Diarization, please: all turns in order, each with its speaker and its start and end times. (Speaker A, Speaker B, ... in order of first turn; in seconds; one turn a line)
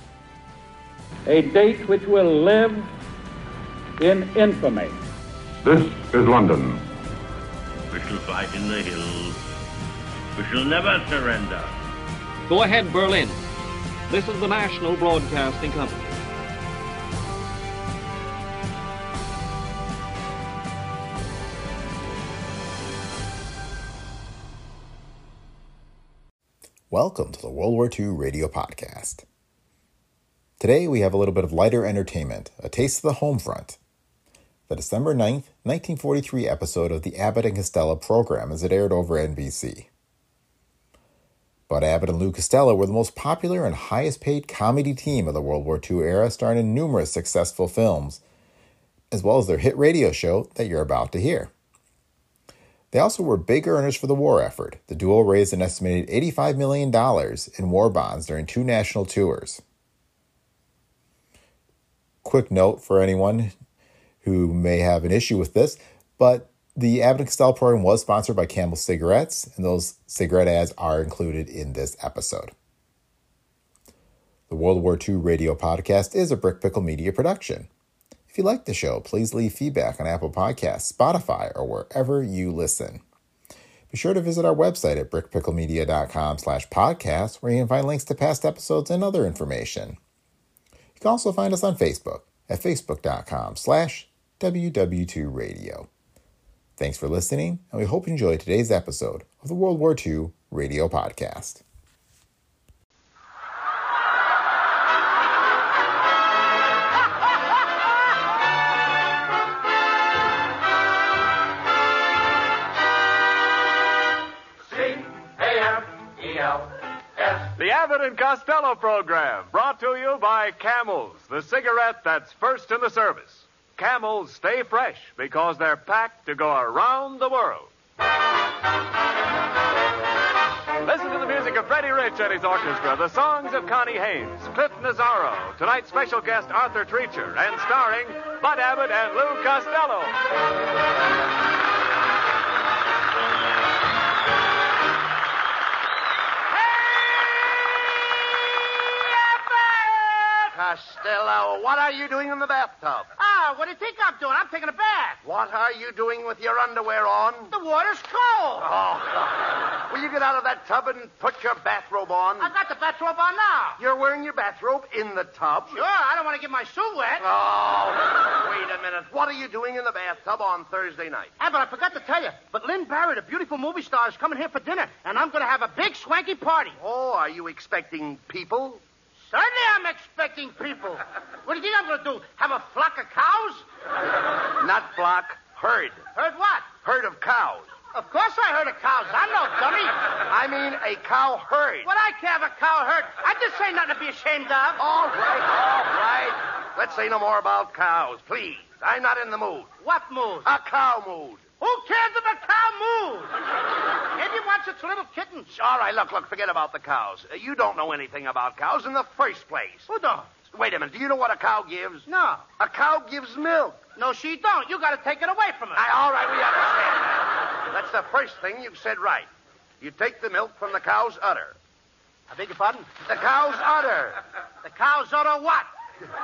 Speaker A: 1.3-2.9
Speaker A: 4.0-5.0
Speaker B: 7.9-9.4
Speaker B: 10.3-11.8
Speaker C: 12.5-13.4
Speaker C: 14.1-16.1
Speaker D: 26.9-29.2
Speaker D: 30.6-33.8
Speaker D: 34.7-39.9
Speaker D: 41.7-48.2
Speaker D: 49.1-51.5
Speaker D: 52.9-59.6
Speaker D: 62.2-63.5
Speaker D: 64.2-72.5
Speaker D: 74.5-77.7
Speaker D: 78.3-83.0
Speaker D: 83.9-90.0
Speaker D: 91.0-95.9
Speaker D: 96.8-101.6
Speaker E: 117.4-127.7
Speaker E: 130.8-140.2
Speaker F: 149.6-150.3
Speaker G: 150.5-153.1
Speaker F: 153.2-155.2
Speaker G: 155.2-157.5
Speaker F: 157.5-158.7
Speaker G: 158.6-162.5
Speaker F: 162.4-163.8
Speaker G: 163.8-165.8
Speaker F: 165.7-167.2
Speaker G: 167.2-171.3
Speaker F: 171.4-176.8
Speaker G: 176.8-178.8
Speaker F: 179.3-183.6
Speaker G: 184.6-186.0
Speaker F: 186.1-186.7
Speaker G: 186.8-187.8
Speaker F: 187.9-189.9
Speaker G: 190.3-191.9
Speaker F: 191.8-194.8
Speaker G: 194.8-199.7
Speaker F: 199.8-200.5
Speaker G: 200.4-201.4
Speaker F: 201.6-203.3
Speaker F: 204.1-205.5
Speaker G: 205.5-209.9
Speaker F: 209.9-210.3
Speaker G: 210.4-212.1
Speaker F: 212.1-212.4
Speaker G: 212.6-213.8
Speaker F: 214.0-215.8
Speaker G: 215.8-219.3
Speaker G: 219.8-221.5
Speaker F: 222.3-222.9
Speaker G: 223.0-224.2
Speaker F: 224.6-225.7